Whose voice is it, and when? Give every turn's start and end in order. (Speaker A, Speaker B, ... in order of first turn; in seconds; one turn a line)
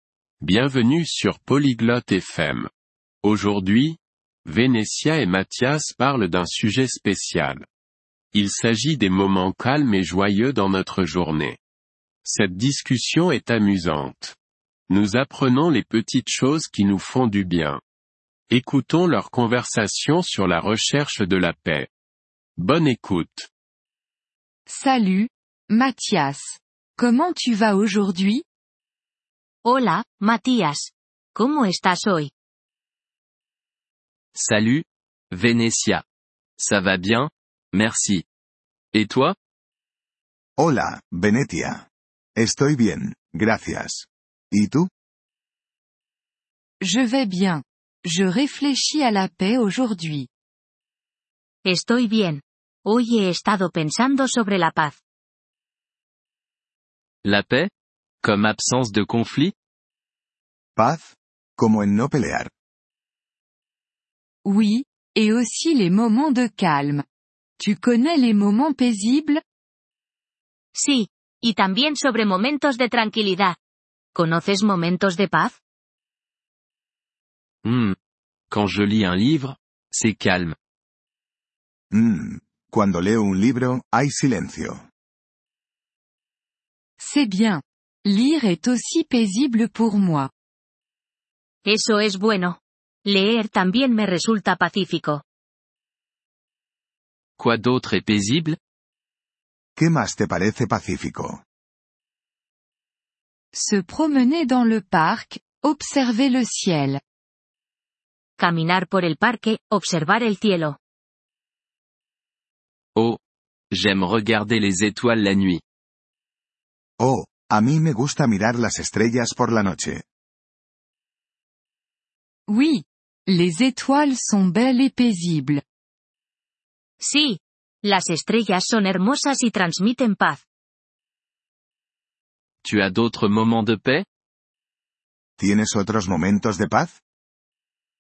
Speaker A: 0.4-2.7
Speaker A: 3.2-7.7
Speaker A: 8.3-11.6
Speaker A: 12.2-14.3
Speaker A: 14.9-17.8
Speaker A: 18.5-21.9
Speaker A: 22.6-23.5
Speaker B: 24.7-28.4
Speaker C: 29.6-32.3
Speaker D: 34.3-36.0
Speaker D: 36.6-38.2
Speaker D: 38.9-39.4
Speaker E: 40.6-44.9
Speaker B: 46.8-50.3
Speaker C: 51.6-55.0
Speaker D: 57.2-57.7
Speaker D: 58.2-59.5
Speaker E: 60.8-62.5
Speaker B: 64.4-67.0
Speaker B: 67.6-69.4
Speaker C: 70.8-73.6
Speaker C: 74.1-75.6
Speaker D: 77.6-78.0
Speaker D: 78.5-80.5
Speaker E: 81.9-84.9
Speaker B: 87.0-90.3
Speaker C: 91.7-95.2
Speaker D: 97.4-98.6
Speaker E: 99.8-101.4
Speaker B: 103.5-107.0
Speaker C: 108.4-110.8
Speaker D: 113.7-115.6
Speaker E: 117.0-120.0
Speaker B: 122.5-125.6
Speaker C: 127.0-130.4
Speaker D: 132.6-134.1
Speaker E: 135.4-137.0